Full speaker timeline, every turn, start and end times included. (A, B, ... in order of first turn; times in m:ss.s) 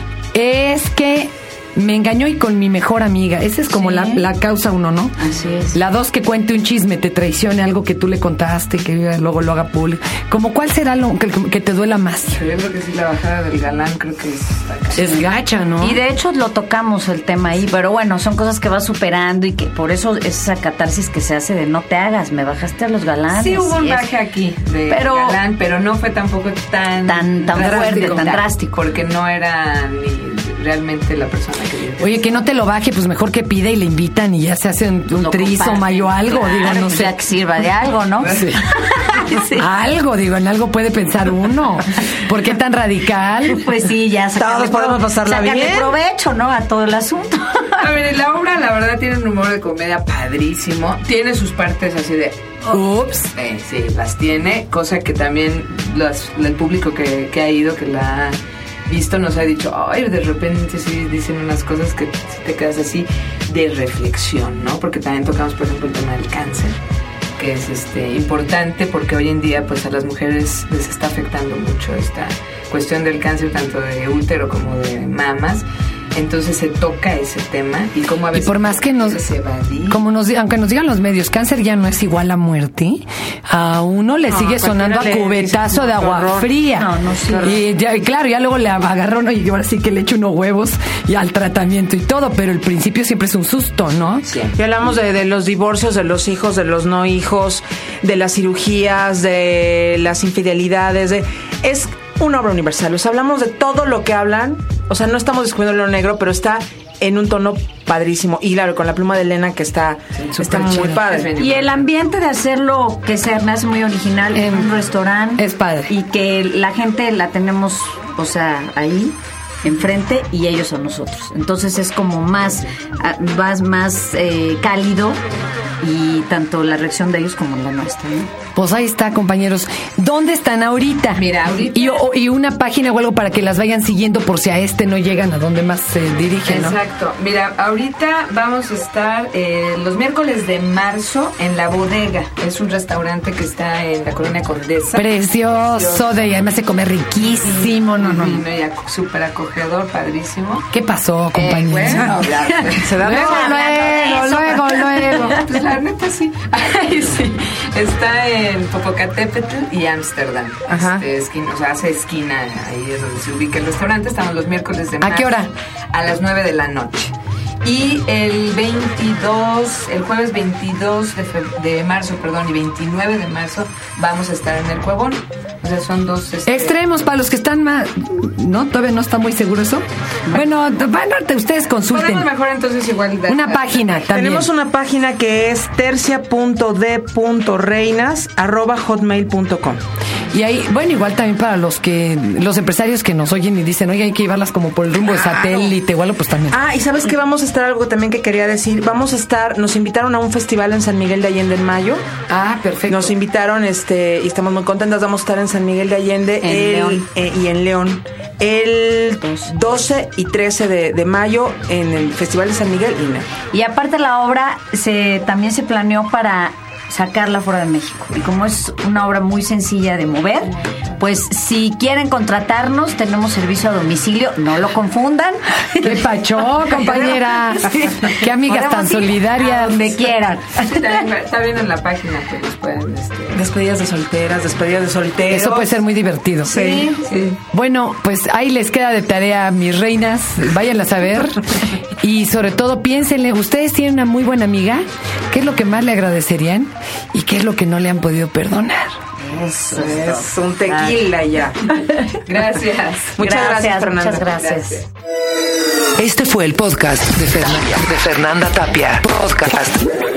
0:00.3-0:05.2 A
0:03.9-0:04.2 B
0:05.2-0:05.7 B
0:05.7-0:12.4 A
0:12.3-0:15.2 C
0:14.9-0:16.0 A
0:15.8-0:24.1 B
0:23.3-0:32.2 C
0:24.9-0:25.4 B
0:27.1-0:28.7 B
0:27.5-0:28.3 A
0:32.0-0:37.2 A
0:35.2-0:39.6 B
0:38.2-0:38.7 A
0:39.6-0:43.7 A
0:43.5-0:47.9 B
0:44.3-0:46.0 D
0:47.8-1:06.8 C
0:52.7-0:53.3 A
1:07.4-1:20.0 C
1:18.3-1:19.2 A
1:19.9-1:34.3 A
1:24.3-1:26.5 D
1:26.7-1:27.5 B
1:34.3-1:34.6 C
1:34.5-1:51.3 D
1:50.2-1:51.8 C
1:50.4-1:51.1 A
1:51.4-2:05.2 B
1:54.3-1:54.7 A
1:55.4-1:55.9 A
2:05.8-2:08.3 B
2:08.5-2:16.8 A
2:11.1-2:12.0 C
2:16.4-2:26.2 C
2:24.9-2:28.4 A
2:27.4-2:30.7 C
2:30.7-2:35.4 A
2:31.3-2:33.0 C
2:32.8-2:33.6 D
2:33.1-2:35.4 B
2:35.2-2:56.8 C
2:40.7-2:41.0 D
2:45.0-2:45.5 A
2:56.4-3:02.3 A
3:01.9-3:04.0 C
3:03.2-3:04.5 A
3:04.1-3:09.8 D
3:10.3-3:16.6 A
3:15.1-3:15.8 D
3:16.5-3:22.0 D
3:22.3-3:23.1 A
3:22.9-3:33.3 D
3:26.4-3:27.0 B
3:33.5-3:45.8 B
3:45.7-3:50.1 A
3:46.6-3:50.8 B
3:50.6-3:53.4 C
3:53.3-3:55.8 D
3:55.3-3:56.5 A
3:56.4-3:57.0 D
3:56.4-3:57.4 C
3:57.4-4:01.5 A
4:02.0-4:09.0 A
4:09.2-4:11.0 B
4:09.7-4:11.6 D
4:12.2-4:13.2 C
4:13.2-4:14.2 D
4:13.2-4:14.8 B
4:14.2-4:14.9 C
4:16.0-4:19.8 E